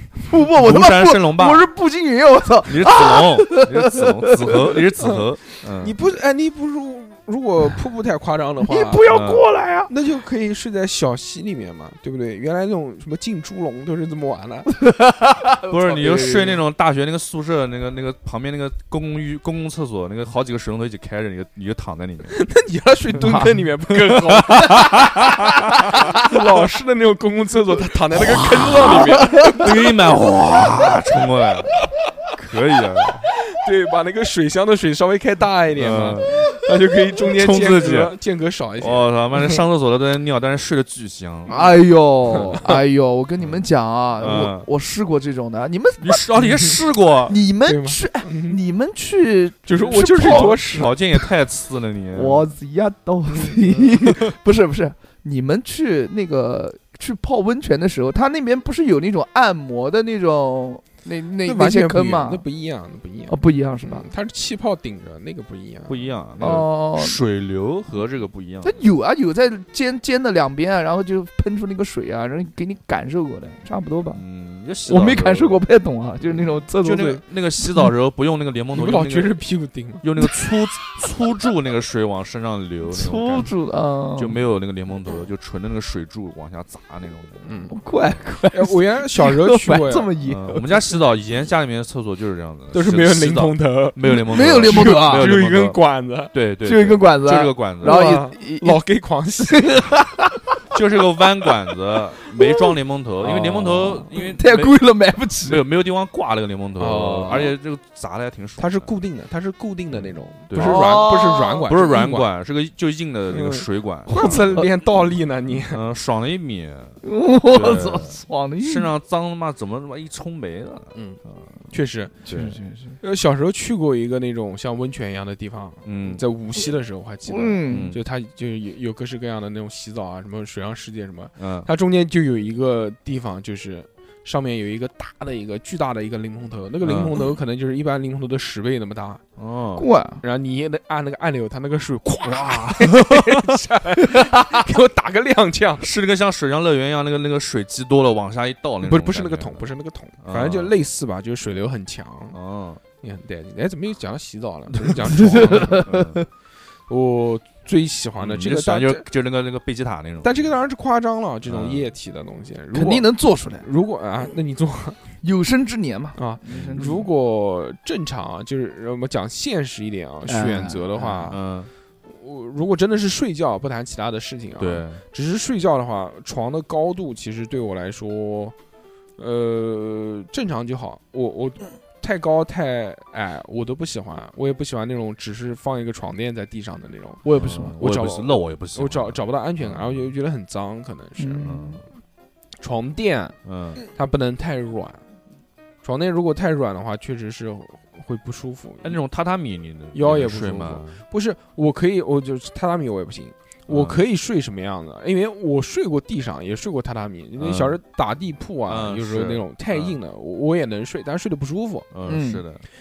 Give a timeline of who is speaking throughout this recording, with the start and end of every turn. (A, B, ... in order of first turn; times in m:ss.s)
0:00.2-0:04.8 A
0:00.6-0:01.7 B
0:02.6-0:06.1 B
0:05.0-0:09.0 C
0:08.6-0:09.9 A
0:09.1-0:09.5 B
0:09.9-0:14.8 C
0:14.8-0:16.6 A
0:15.6-0:22.4 B
0:22.3-0:29.8 C
0:24.1-0:25.5 B
0:28.1-0:33.3 B
0:33.5-0:39.6 C
0:35.8-0:36.5 B
0:37.3-0:38.2 B
0:38.8-0:41.7 B
0:41.5-0:46.2 A
0:42.3-0:42.8 C
0:43.4-0:43.6 B
0:44.2-0:44.7 B
0:46.0-0:47.4 B
0:47.3-0:51.2 A
0:47.7-0:48.6 C
0:49.7-0:51.0 C
0:50.1-0:52.5 B
0:52.1-1:02.4 A
1:01.4-1:06.1 C
1:03.3-1:04.1 A
1:05.9-1:08.8 B
1:06.4-1:07.2 A
1:08.6-1:14.2 A
1:14.1-1:15.6 B
1:14.9-1:17.9 A
1:16.4-1:19.4 B
1:18.7-1:20.0 C
1:20.0-1:23.5 B
1:22.9-1:24.4 A
1:24.2-1:27.7 B
1:27.4-1:27.8 C
1:27.7-1:30.8 A
1:28.5-1:30.1 C
1:30.2-1:35.8 B
1:32.7-1:36.3 C
1:34.0-1:35.3 A
1:36.3-1:38.1 B
1:36.6-1:38.8 A
1:37.8-1:39.9 C
1:39.4-1:40.6 A
1:40.7-1:44.8 B
1:42.4-1:42.7 A
1:43.4-1:45.6 A
1:45.4-1:48.9 B
1:46.8-1:47.5 C
1:48.6-1:52.3 C
1:49.9-1:51.1 B
1:50.6-1:51.7 A
1:51.6-1:54.7 B
1:53.3-1:55.8 C
1:54.1-1:54.7 A
1:55.5-2:01.6 B
1:57.0-1:58.9 A
2:00.9-2:02.3 C
2:02.2-2:03.0 A
2:02.3-2:02.6 B
2:03.0-2:19.2 C
2:05.8-2:06.2 B
2:07.3-2:07.9 A
2:07.7-2:08.0 B
2:11.4-2:11.7 B
2:16.8-2:17.2 B
2:19.4-2:19.9 B
2:19.8-2:20.2 A
2:20.2-2:25.9 C
2:25.8-2:29.7 B
2:28.8-2:32.4 C
2:30.2-2:30.8 B
2:32.3-2:32.8 B
2:33.0-2:35.9 C
2:34.9-2:36.2 B
2:35.1-2:36.3 A
2:36.9-2:39.1 C
2:38.2-2:40.6 B
2:40.2-2:45.0 C
2:41.4-2:41.9 B
2:42.7-2:43.7 A
2:45.2-2:47.1 A
2:46.2-2:51.4 C
2:46.5-2:46.8 B
2:50.3-2:51.3 A
2:51.3-2:51.7 B
2:52.0-2:58.6 C
2:54.6-2:55.0 B
2:59.2-3:11.6 C
3:07.2-3:07.8 A
3:07.4-3:10.2 B
3:11.2-3:11.8 A
3:11.4-3:11.8 B
3:12.6-3:15.0 C
3:13.4-3:13.8 B
3:15.8-3:19.0 C
3:18.8-3:21.0 B
3:19.9-3:31.9 C
3:23.7-3:24.0 B
3:27.4-3:27.8 B
3:28.7-3:30.0 B
3:31.9-3:32.7 B
3:32.1-3:32.4 A